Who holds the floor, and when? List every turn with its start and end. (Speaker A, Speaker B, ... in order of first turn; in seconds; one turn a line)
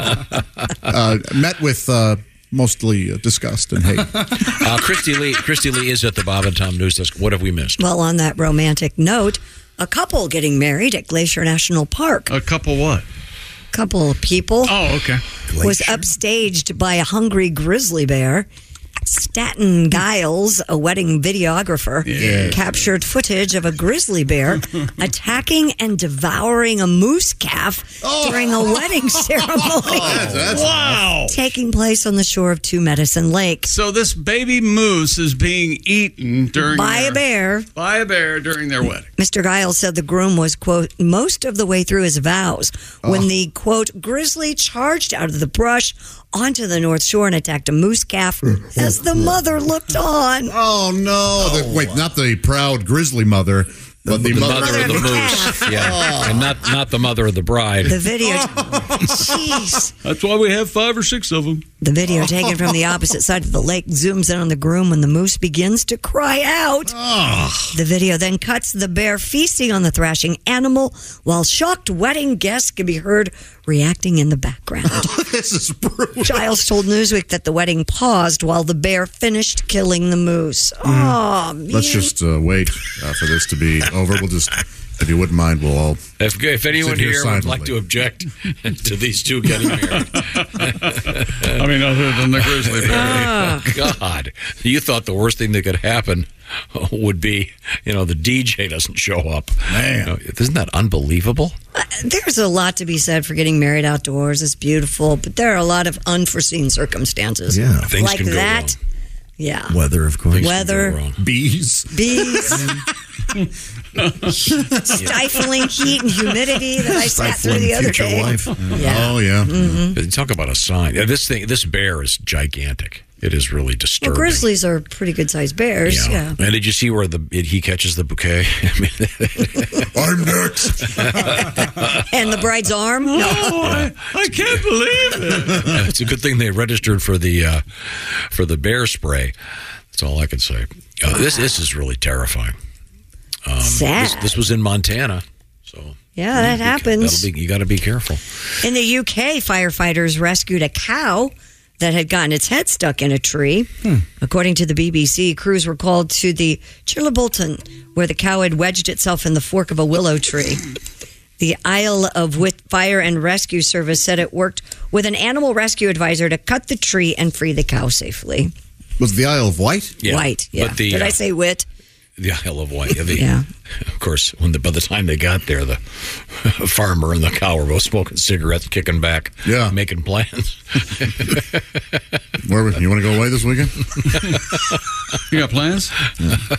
Speaker A: 0.8-4.3
Speaker B: 4.5-7.8
Speaker C: 7.8-12.3
Speaker D: 12.3-13.1
Speaker C: 13.7-14.8
Speaker D: 14.6-15.2
Speaker E: 15.5-16.0
Speaker C: 15.6-18.5
Speaker C: 19.1-30.5
Speaker D: 22.1-22.6
Speaker A: 22.2-22.6
Speaker A: 28.0-28.9
Speaker A: 29.8-31.0
Speaker D: 30.4-31.4
Speaker C: 31.3-33.7
Speaker D: 33.6-37.2
Speaker C: 36.7-37.7
Speaker D: 37.8-39.1
Speaker C: 39.2-50.5
Speaker A: 43.0-43.3
Speaker A: 50.5-56.6
Speaker B: 54.2-58.0
Speaker C: 54.4-56.1
Speaker C: 57.8-59.9
Speaker A: 58.2-59.4
Speaker D: 60.0-61.6
Speaker C: 61.8-66.9
Speaker A: 62.2-62.8
Speaker A: 66.9-67.8
Speaker C: 67.7-75.1
Speaker A: 74.9-76.5
Speaker C: 76.2-82.1
Speaker A: 80.9-81.1
Speaker A: 81.7-86.0
Speaker B: 86.2-91.7
Speaker A: 86.8-87.8
Speaker D: 91.0-93.3
Speaker B: 92.4-101.5
Speaker C: 93.1-93.7
Speaker A: 99.7-100.1
Speaker C: 101.8-108.8
Speaker E: 107.5-107.9
Speaker B: 107.8-108.8
Speaker C: 109.4-109.8
Speaker E: 109.7-110.4
Speaker B: 110.3-111.2
Speaker C: 110.4-111.0
Speaker A: 111.2-112.8
Speaker C: 111.9-112.7
Speaker D: 114.1-114.3
Speaker C: 114.7-120.0
Speaker E: 116.8-118.6
Speaker A: 118.6-119.7
Speaker B: 119.9-124.5
Speaker C: 124.0-126.3
Speaker B: 125.8-129.9
Speaker A: 129.9-131.3
Speaker B: 131.0-132.0
Speaker C: 131.9-133.8
Speaker D: 133.1-135.8
Speaker B: 135.7-139.3
Speaker B: 139.9-142.6
Speaker C: 141.1-141.6
Speaker B: 143.4-148.2
Speaker C: 143.6-144.5
Speaker C: 146.2-147.3
Speaker C: 148.6-160.6
Speaker C: 161.4-168.5
Speaker A: 169.0-169.9
Speaker B: 170.0-171.2
Speaker C: 170.1-171.6
Speaker B: 172.2-173.3
Speaker C: 173.1-173.4
Speaker B: 173.9-181.6
Speaker A: 179.4-179.8
Speaker A: 182.4-183.9
Speaker D: 185.3-185.9